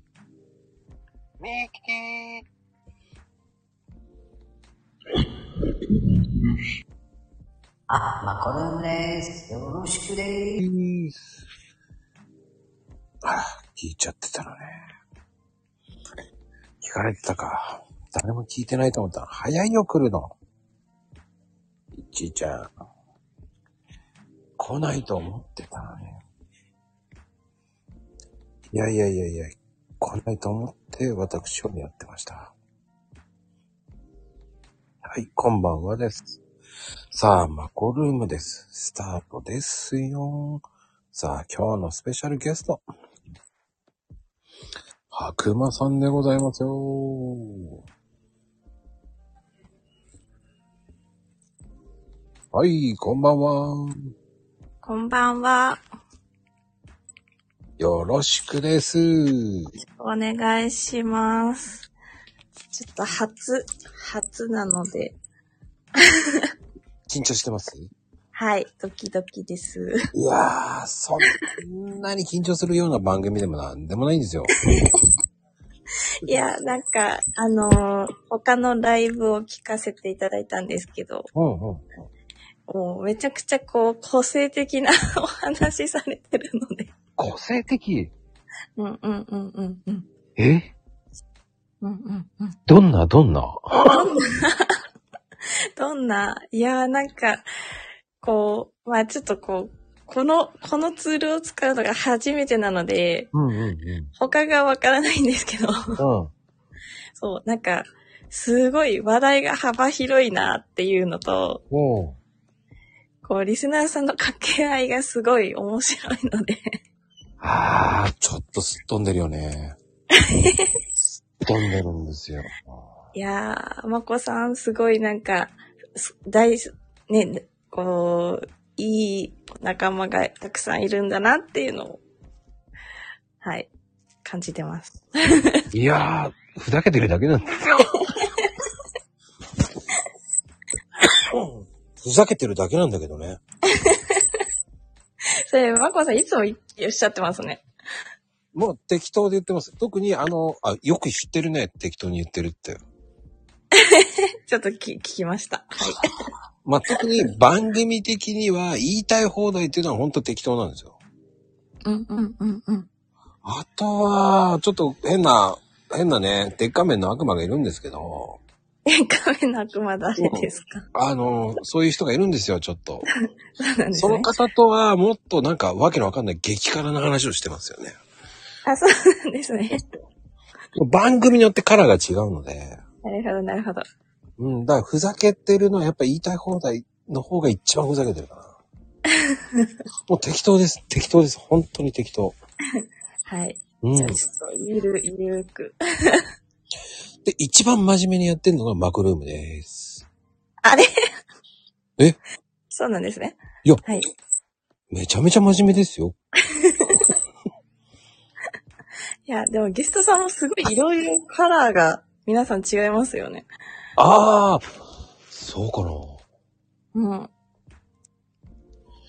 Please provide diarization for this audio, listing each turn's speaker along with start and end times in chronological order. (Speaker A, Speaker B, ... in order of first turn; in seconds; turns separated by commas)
Speaker A: 1.4-2.4, Speaker B: 7.9-10.6, Speaker A: 10.6-11.3, Speaker A: 13.2-14.8, Speaker A: 16.8-20.3, Speaker A: 22.0-22.7, Speaker A: 24.6-26.2, Speaker A: 28.7-32.5, Speaker A: 35.0-36.4, Speaker A: 37.1-42.8, Speaker A: 45.1-47.7, Speaker A: 52.5-54.1, Speaker C: 54.8-55.8, Speaker A: 57.8-59.7, Speaker C: 59.9-61.9, Speaker C: 62.7-65.2, Speaker C: 66.0-66.5, Speaker A: 67.1-67.9, Speaker C: 68.3-70.0, Speaker A: 70.1-74.5, Speaker C: 74.6-74.9, Speaker C: 76.2-81.3, Speaker A: 81.3-81.8, Speaker C: 82.7-86.9, Speaker A: 87.2-88.1, Speaker C: 88.8-90.0, Speaker A: 90.4-90.7, Speaker C: 91.8-92.5, Speaker A: 92.7-94.0, Speaker C: 93.9-94.7, Speaker C: 95.8-97.4, Speaker C: 98.2-103.3, Speaker A: 103.3-104.1, Speaker C: 104.2-106.0, Speaker A: 106.0-106.3, Speaker C: 107.2-111.6, Speaker A: 111.7-112.2, Speaker C: 113.2-116.7, Speaker A: 117.4-119.8, Speaker C: 120.2-120.7, Speaker A: 121.4-122.8, Speaker C: 123.1-132.0, Speaker C: 133.4-133.7, Speaker C: 134.2-135.7, Speaker A: 135.7-138.1, Speaker C: 138.1-138.5, Speaker A: 141.1-143.4, Speaker C: 143.7-144.2, Speaker C: 145.4-147.6, Speaker A: 148.5-152.8, Speaker C: 153.7-156.1, Speaker A: 156.6-160.9, Speaker C: 161.8-162.9, Speaker A: 163.4-168.4, Speaker C: 168.8-170.8, Speaker A: 170.2-173.1, Speaker C: 173.6-174.3, Speaker A: 173.9-178.0, Speaker C: 178.7-179.8, Speaker A: 180.7-182.8, Speaker C: 183.0-183.8, Speaker A: 184.4-188.5, Speaker C: 189.1-189.7, Speaker A: 190.1-192.3, Speaker C: 193.3-196.2, Speaker A: 193.8-194.2, Speaker A: 197.2-200.0, Speaker C: 200.6-200.9, Speaker C: 202.7-204.1, Speaker A: 204.9-206.1, Speaker C: 206.5-207.1, Speaker C: 209.3-213.4, Speaker A: 214.0-214.6, Speaker A: 215.3-216.2, Speaker C: 216.9-217.3